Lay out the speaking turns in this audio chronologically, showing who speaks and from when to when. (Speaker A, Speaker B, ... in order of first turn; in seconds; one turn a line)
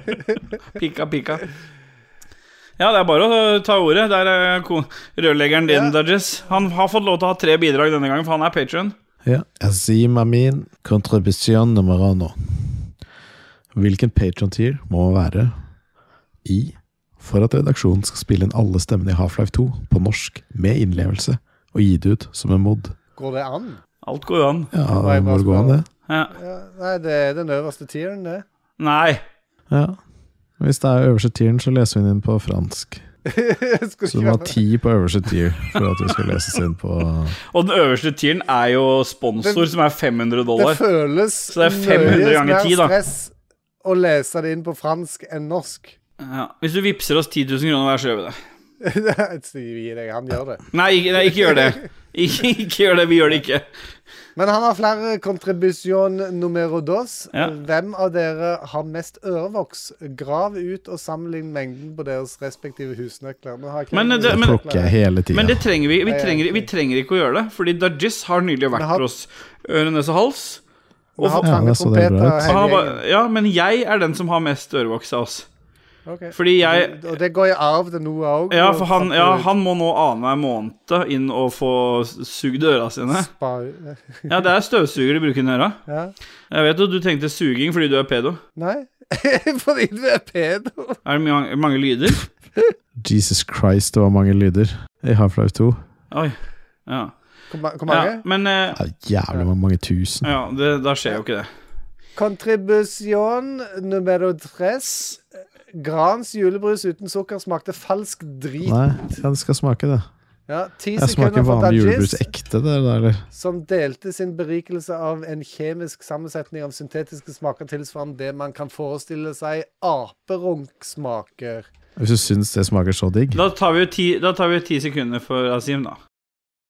Speaker A: 0.7-1.4
Speaker A: 2.8-8.9
Speaker B: 5.7-5.9
Speaker C: 9.2-12.9
Speaker C: 13.7-15.6
Speaker C: 16.4-22.9
Speaker B: 23.1-23.8
Speaker A: 24.0-24.7
Speaker C: 24.7-25.9
Speaker B: 25.0-25.8
Speaker B: 26.3-28.4
Speaker A: 28.8-29.2
Speaker C: 29.7-30.0
Speaker C: 30.6-33.0
Speaker B: 33.2-34.5
Speaker C: 34.1-37.4
Speaker A: 37.5-40.8
Speaker B: 39.4-39.7
Speaker B: 40.5-45.9
Speaker A: 41.5-42.9
Speaker A: 46.2-48.4
Speaker B: 48.8-50.6
Speaker A: 50.7-53.6
Speaker B: 51.5-51.7
Speaker B: 54.4-64.9
Speaker A: 63.9-64.6
Speaker C: 64.2-65.6
Speaker A: 65.3-70.6
Speaker B: 66.0-66.7
Speaker B: 68.7-69.0
Speaker B: 71.2-73.0
Speaker A: 71.2-71.5
Speaker C: 71.4-72.7
Speaker A: 72.5-75.5
Speaker B: 76.0-79.5
Speaker A: 76.3-77.1
Speaker A: 78.5-83.3
Speaker B: 83.1-84.3
Speaker A: 84.3-85.8
Speaker B: 85.9-86.1
Speaker A: 86.5-88.4
Speaker B: 88.6-91.0
Speaker A: 91.0-92.2
Speaker C: 93.0-95.8
Speaker A: 96.1-96.3
Speaker A: 96.9-97.1
Speaker B: 97.5-98.2
Speaker A: 97.9-98.8
Speaker C: 98.7-100.3
Speaker A: 100.2-101.5
Speaker B: 102.2-105.2
Speaker B: 105.7-108.8
Speaker C: 108.6-110.1
Speaker B: 110.5-112.3
Speaker C: 111.0-113.2
Speaker B: 113.3-121.7
Speaker C: 122.0-123.4
Speaker A: 123.3-126.0